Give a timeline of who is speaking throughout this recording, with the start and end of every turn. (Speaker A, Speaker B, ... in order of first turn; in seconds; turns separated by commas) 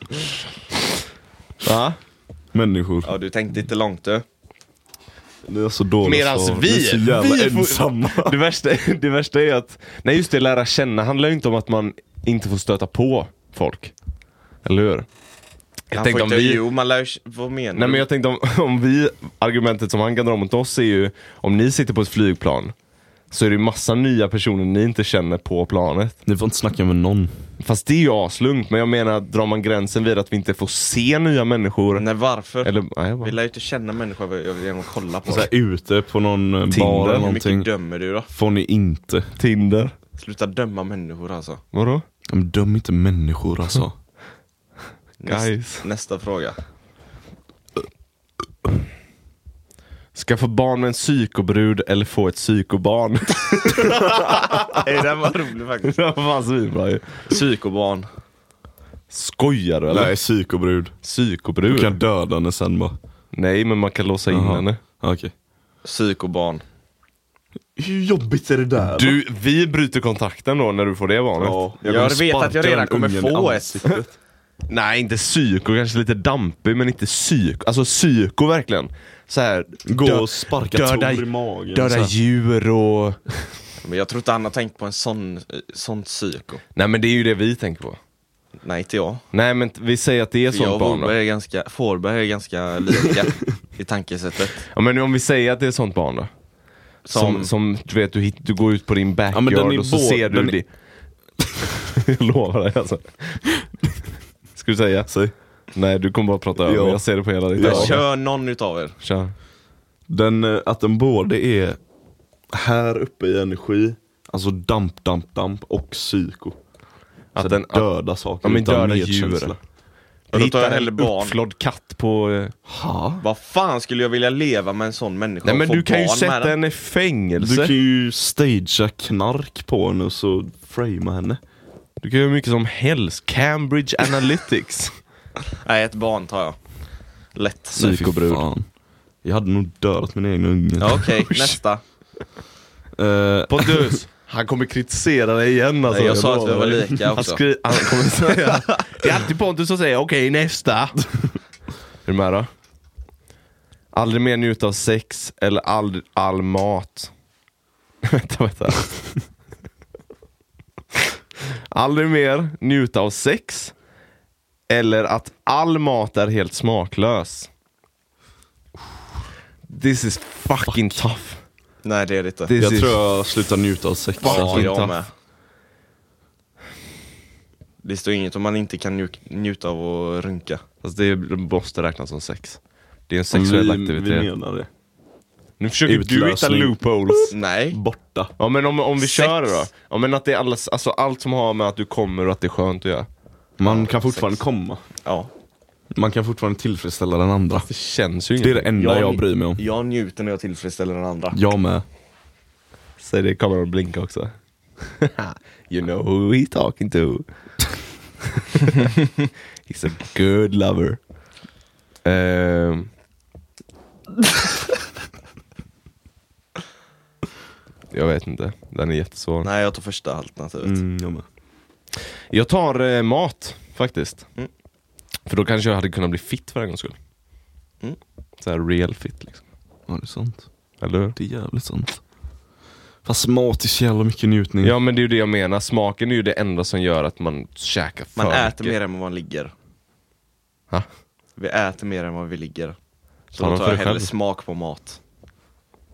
Speaker A: 1.6-2.0, Speaker B: 2.5-3.1, Speaker C: 3.0-4.2, Speaker B: 5.4-8.4, Speaker A: 6.0-13.9, Speaker A: 14.6-15.1, Speaker A: 15.9-16.6, Speaker C: 15.9-18.0, Speaker A: 17.7-22.7, Speaker A: 23.3-26.2, Speaker B: 26.2-27.3, Speaker A: 27.6-32.0, Speaker C: 31.9-35.5, Speaker A: 32.6-33.4, Speaker B: 35.2-37.7, Speaker A: 36.7-37.3, Speaker C: 37.0-38.3, Speaker B: 38.3-39.4, Speaker A: 39.4-39.9, Speaker C: 40.2-41.6, Speaker A: 41.7-42.0, Speaker B: 42.3-44.0, Speaker C: 45.2-46.6, Speaker A: 45.3-45.8, Speaker A: 50.1-54.8, Speaker C: 54.6-56.0, Speaker A: 55.9-57.3, Speaker C: 57.3-58.1, Speaker A: 59.1-60.1, Speaker B: 59.9-60.9, Speaker A: 61.0-62.0, Speaker B: 61.7-62.9, Speaker A: 63.3-64.8, Speaker B: 64.3-65.3, Speaker C: 65.8-66.6, Speaker B: 67.8-69.2, Speaker A: 69.0-71.6, Speaker B: 71.4-74.2, Speaker C: 71.8-74.0, Speaker A: 74.7-83.6, Speaker B: 79.8-82.1, Speaker C: 83.8-86.6, Speaker A: 86.7-88.0, Speaker C: 88.6-89.2, Speaker A: 89.3-91.1, Speaker C: 90.5-94.7, Speaker A: 94.7-96.3, Speaker C: 97.0-97.5, Speaker A: 97.1-100.7, Speaker B: 99.3-100.6, Speaker A: 102.0-103.5, Speaker A: 104.5-105.1, Speaker B: 105.1-105.3, Speaker A: 105.7-108.0, Speaker B: 106.6-108.0, Speaker C: 107.6-109.0, Speaker A: 109.0-109.3, Speaker B: 110.1-111.8, Speaker B: 112.5-116.6, Speaker A: 117.3-117.9, Speaker B: 117.4-119.6, Speaker A: 118.4-119.5, Speaker A: 120.3-122.5, Speaker C: 120.3-121.3, Speaker B: 122.7-123.2, Speaker C: 123.2-126.5, Speaker A: 125.4-127.7, Speaker B: 127.4-131.4, Speaker A: 132.0-135.0, Speaker C: 135.6-138.0, Speaker A: 137.8-138.5, Speaker B: 137.8-141.1, Speaker C: 140.8-141.8, Speaker B: 142.9-143.9, Speaker A: 143.5-151.3, Speaker C: 145.9-149.0, Speaker A: 152.0-152.5, Speaker A: 153.9-157.1, Speaker A: 158.1-159.1, Speaker A: 161.7-163.7, Speaker A: 164.7-167.5, Speaker A: 169.7-171.4, Speaker C: 171.8-172.5, Speaker A: 172.5-173.0, Speaker B: 172.6-174.7, Speaker A: 174.2-175.1, Speaker C: 174.2-175.1, Speaker C: 177.8-180.6, Speaker A: 180.8-184.3, Speaker B: 183.3-184.7, Speaker A: 185.6-187.3, Speaker B: 185.8-186.8, Speaker C: 187.3-187.8, Speaker B: 187.7-188.3, Speaker A: 188.4-193.1, Speaker C: 189.0-189.7, Speaker B: 193.6-194.8, Speaker C: 193.6-194.4, Speaker C: 195.0-195.3, Speaker B: 195.9-197.7, Speaker A: 197.7-198.7, Speaker B: 198.4-199.6, Speaker C: 198.7-201.4, Speaker B: 201.3-201.8, Speaker A: 203.0-207.2, Speaker A: 208.5-208.9, Speaker A: 209.7-211.0, Speaker A: 212.0-212.9, Speaker A: 217.9-219.5, Speaker C: 219.4-220.8, Speaker B: 220.6-221.2, Speaker A: 222.3-224.3, Speaker A: 225.2-227.0, Speaker A: 228.4-229.4, Speaker B: 229.9-230.5, Speaker A: 230.8-231.2, Speaker B: 231.1-232.0, Speaker B: 233.0-234.8, Speaker A: 234.6-238.8, Speaker C: 238.2-239.5, Speaker C: 241.3-242.8, Speaker C: 243.3-245.0, Speaker A: 243.4-244.1